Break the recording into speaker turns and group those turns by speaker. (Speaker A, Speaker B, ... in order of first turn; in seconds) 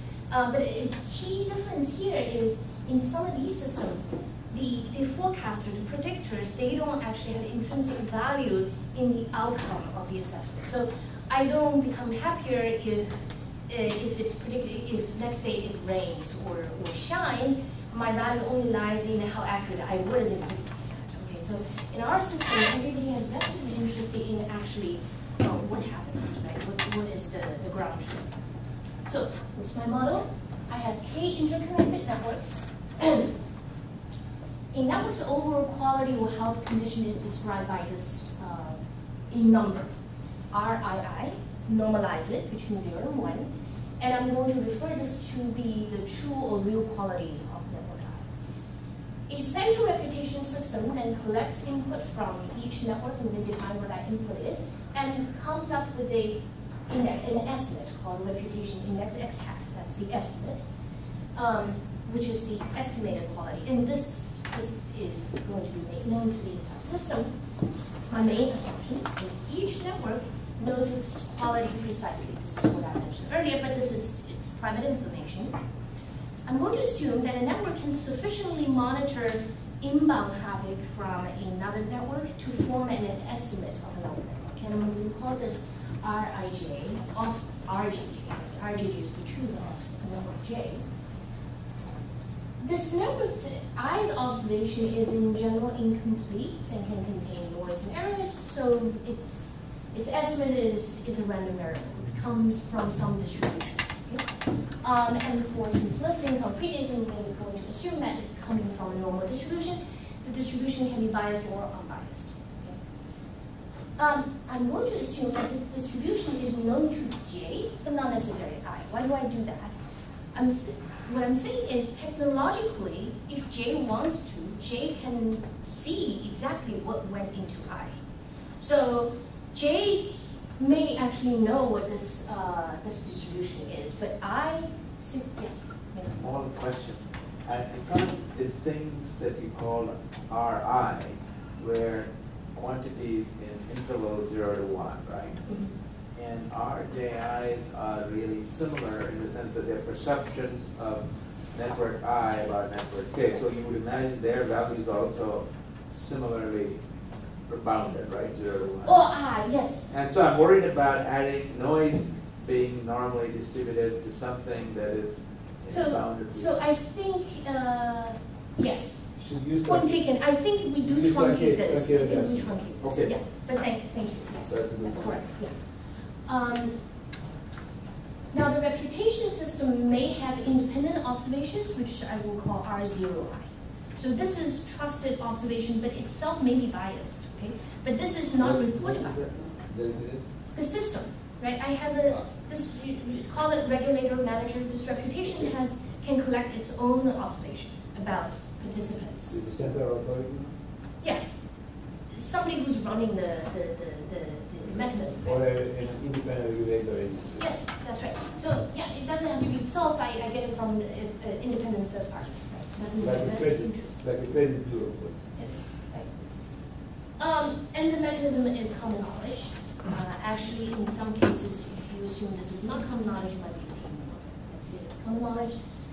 Speaker A: 0.3-28.3, 29.0-33.3, 34.7-38.8, 39.3-39.9, 40.5-43.5, 44.0-48.3, 49.3-60.6, 61.3-67.3, 68.1-75.5, 76.5-90.8, 92.6-104.2, 104.8-112.8, 114.0-119.8, 120.3-128.0, 128.6-136.2, 145.4-145.7, 158.8-159.9, 165.7-175.7, 176.2-176.8, 178.3-189.2, 190.5-199.3, 202.1-205.9, 207.4-214.0, 215.3-216.1, 217.2-225.6
Speaker B: 136.1-145.6, 146.1-156.8, 157.4-159.1, 159.9-166.5, 172.8-173.2
Speaker C: 169.2-170.2, 170.8-172.6, 174.4-175.2, 188.4-190.2, 199.3-200.5, 205.2-207.5, 213.0-215.4